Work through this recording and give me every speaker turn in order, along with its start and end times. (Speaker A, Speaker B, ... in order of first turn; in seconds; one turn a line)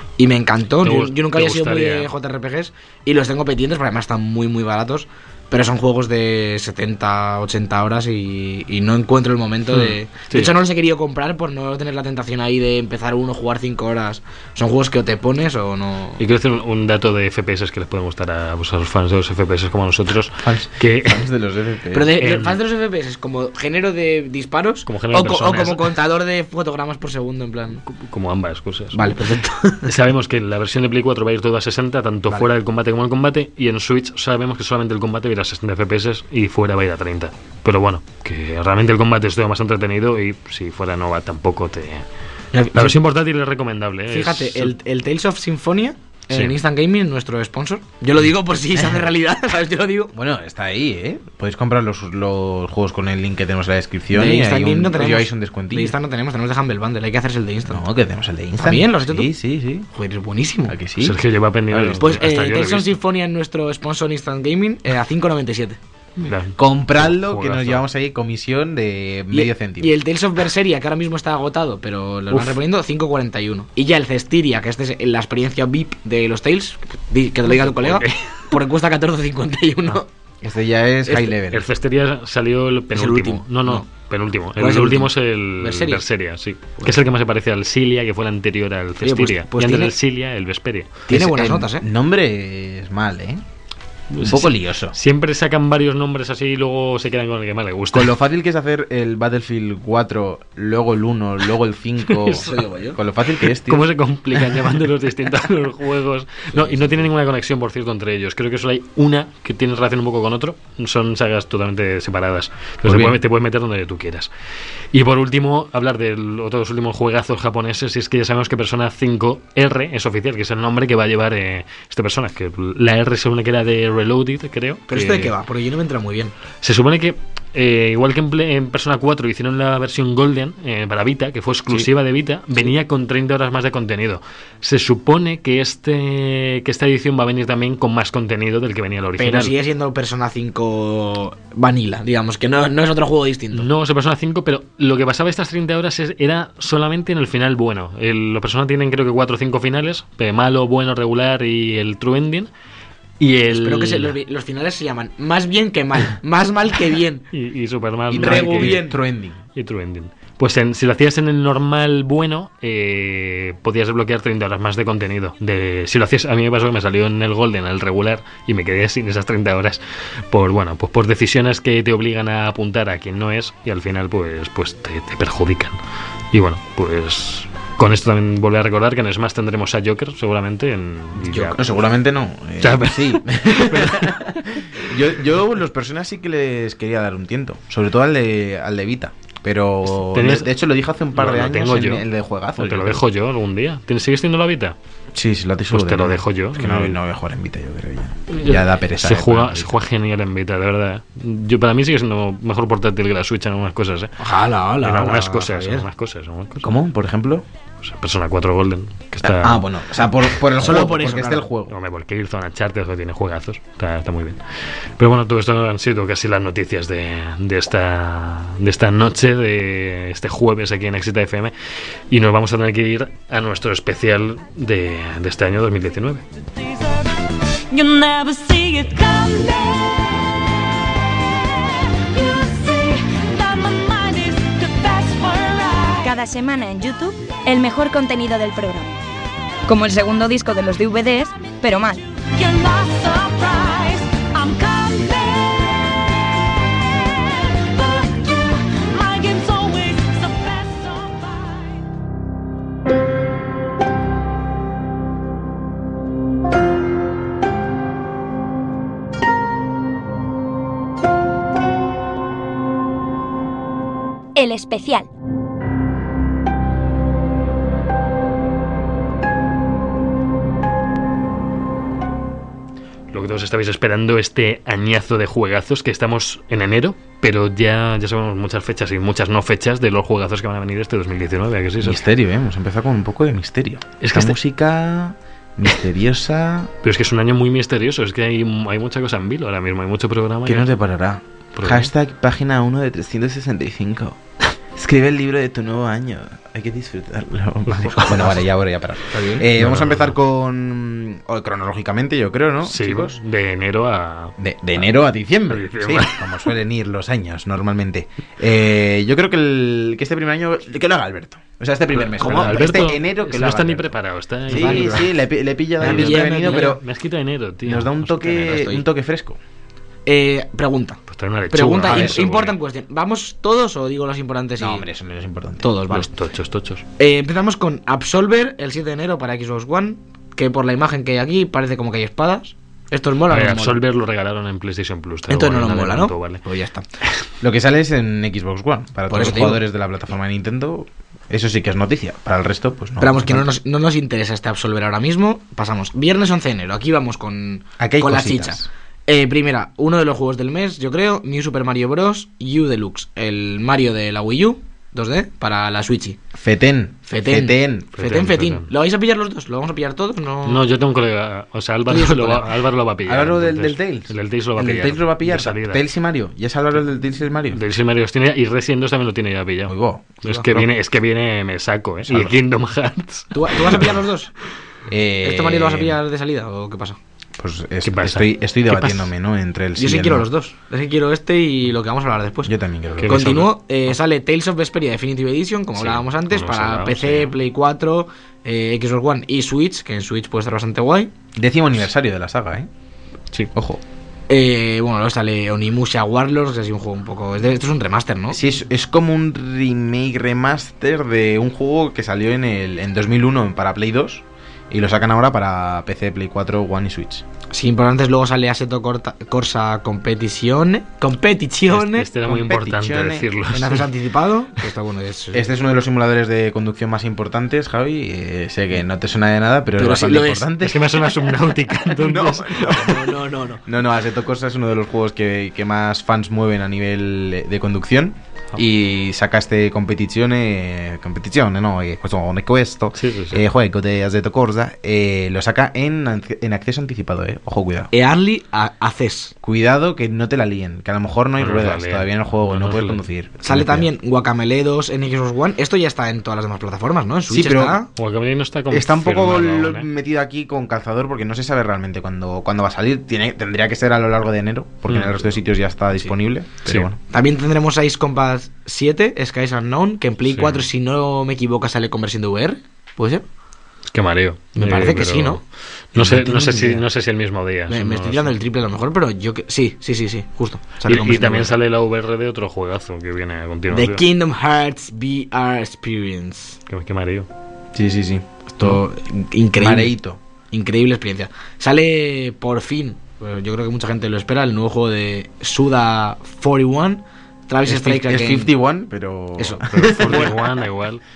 Speaker A: 0.2-16.2
Speaker B: 0.8-2.1
Speaker B: 9.7-10.5
Speaker B: 16.2-21.3
Speaker C: 20.4-22.1
Speaker A: 21.9-27.8
Speaker B: 22.2-22.6
Speaker B: 24.9-25.9
Speaker B: 27.9-29.2
Speaker A: 28.9-29.9
Speaker B: 29.8-42.1
Speaker A: 42.5-43.0
Speaker B: 42.7-44.7
Speaker A: 44.1-50.1
Speaker C: 50.1-56.0
Speaker A: 54.1-57.8
Speaker C: 57.7-59.9
Speaker A: 58.6-59.3
Speaker A: 59.9-60.8
Speaker C: 60.7-61.2
Speaker B: 61.0-63.0
Speaker C: 61.7-62.1
Speaker A: 62.0-65.8
Speaker B: 66.2-67.8
Speaker C: 66.5-70.0
Speaker A: 69.3-80.1
Speaker B: 72.3-72.6
Speaker B: 77.5-78.3
Speaker C: 80.4-81.7
Speaker A: 81.1-81.3
Speaker B: 81.5-91.0
Speaker A: 82.9-83.9
Speaker A: 84.6-86.0
Speaker A: 89.0-89.9
Speaker A: 91.1-91.9
Speaker C: 91.1-93.4
Speaker B: 94.1-98.2
Speaker C: 94.2-95.0
Speaker C: 97.9-104.6
Speaker B: 102.1-102.6
Speaker A: 102.4-103.0
Speaker B: 103.4-114.3
Speaker C: 112.8-113.2
Speaker B: 114.9-125.3
Speaker A: 124.9-126.3
Speaker B: 126.6-139.5
Speaker A: 139.2-143.7
Speaker B: 143.5-152.5
Speaker B: 153.2-154.2
Speaker A: 153.5-157.3
Speaker B: 157.3-158.8
Speaker C: 158.1-159.4
Speaker A: 158.2-158.9
Speaker B: 159.6-175.8
Speaker B: 176.3-181.7
Speaker A: 181.3-181.6
Speaker C: 181.5-193.0
Speaker B: 182.6-184.6
Speaker B: 190.1-190.5
Speaker B: 191.1-192.1
Speaker B: 192.6-194.8
Speaker C: 195.1-199.8
Speaker B: 195.7-197.0
Speaker B: 198.3-204.2
Speaker A: 204.2-205.9
Speaker B: 204.8-206.7
Speaker C: 206.6-207.5
Speaker B: 207.8-209.7
Speaker C: 209.2-211.7
Speaker A: 210.6-211.5
Speaker B: 211.7-214.4
Speaker B: 215.0-221.5
Speaker B: 222.1-226.2
Speaker D: 227.7-229.8
Speaker D: 232.2-236.2
Speaker E: 236.0-238.9
Speaker E: 239.7-242.0
Speaker D: 242.3-245.7
Speaker D: 247.6-251.6
Speaker E: 264.4-265.1
Speaker B: 273.1-282.0
Speaker C: 281.8-286.7
Speaker B: 284.0-284.4
Speaker B: 286.8-290.7
Speaker C: 290.5-303.2
Speaker B: 291.6-291.9
Speaker B: 297.7-298.3
Speaker A: 299.1-299.5
Speaker B: 299.6-300.1
Speaker B: 302.6-304.4
Speaker C: 304.4-313.9
Speaker B: 305.5-306.5
Speaker B: 311.9-315.1
Speaker A: 312.2-313.0
Speaker C: 314.5-316.8
Speaker A: 314.5-315.1
Speaker A: 315.8-316.8
Speaker B: 315.8-318.7
Speaker C: 317.6-319.4
Speaker A: 318.5-318.8
Speaker A: 320.1-321.0
Speaker B: 321.1-322.6
Speaker A: 321.5-324.9
Speaker C: 321.8-322.2
Speaker C: 324.6-325.7
Speaker A: 325.6-326.1
Speaker B: 325.9-326.8
Speaker A: 327.0-333.8
Speaker B: 333.3-336.4
Speaker A: 335.3-336.9
Speaker C: 337.4-343.5
Speaker A: 339.1-339.6
Speaker A: 343.0-356.2
Speaker C: 347.8-348.7
Speaker C: 356.4-358.1
Speaker A: 357.1-360.6
Speaker B: 358.0-358.7
Speaker B: 360.5-365.8
Speaker A: 361.9-362.6
Speaker C: 363.1-367.6
Speaker B: 367.5-374.0
Speaker C: 369.7-370.7
Speaker C: 372.1-372.4
Speaker A: 373.3-374.3
Speaker C: 374.9-376.0
Speaker A: 375.2-377.0
Speaker C: 377.4-380.3
Speaker B: 377.8-379.1
Speaker A: 379.8-382.5
Speaker C: 382.5-383.5
Speaker B: 383.0-383.5
Speaker A: 383.1-391.1
Speaker B: 385.8-387.4
Speaker C: 391.4-392.7
Speaker C: 393.5-393.8
Speaker A: 394.3-398.4
Speaker C: 398.3-407.2
Speaker A: 407.5-412.1
Speaker B: 411.7-413.9
Speaker C: 412.2-413.3
Speaker A: 413.5-415.5
Speaker C: 415.3-421.1
Speaker A: 419.8-420.5
Speaker B: 420.6-422.9
Speaker C: 422.0-423.1
Speaker A: 422.6-423.6
Speaker C: 423.6-437.9
Speaker B: 432.9-433.4
Speaker A: 437.9-439.3
Speaker C: 439.4-443.9
Speaker B: 441.4-443.0
Speaker A: 443.4-447.9
Speaker C: 447.3-447.8
Speaker B: 448.0-449.9
Speaker C: 448.7-457.0
Speaker B: 454.9-455.3
Speaker A: 457.1-463.2
Speaker B: 460.3-460.6
Speaker B: 463.9-468.4
Speaker A: 464.6-465.4
Speaker A: 466.0-466.8
Speaker C: 466.0-466.3
Speaker A: 467.7-471.5
Speaker B: 470.9-474.0
Speaker A: 473.7-476.6
Speaker B: 476.7-477.3
Speaker C: 477.8-478.8
Speaker A: 478.6-479.9
Speaker C: 479.6-480.2
Speaker A: 480.5-488.5
Speaker C: 487.7-490.4
Speaker A: 489.4-490.4
Speaker B: 489.7-491.0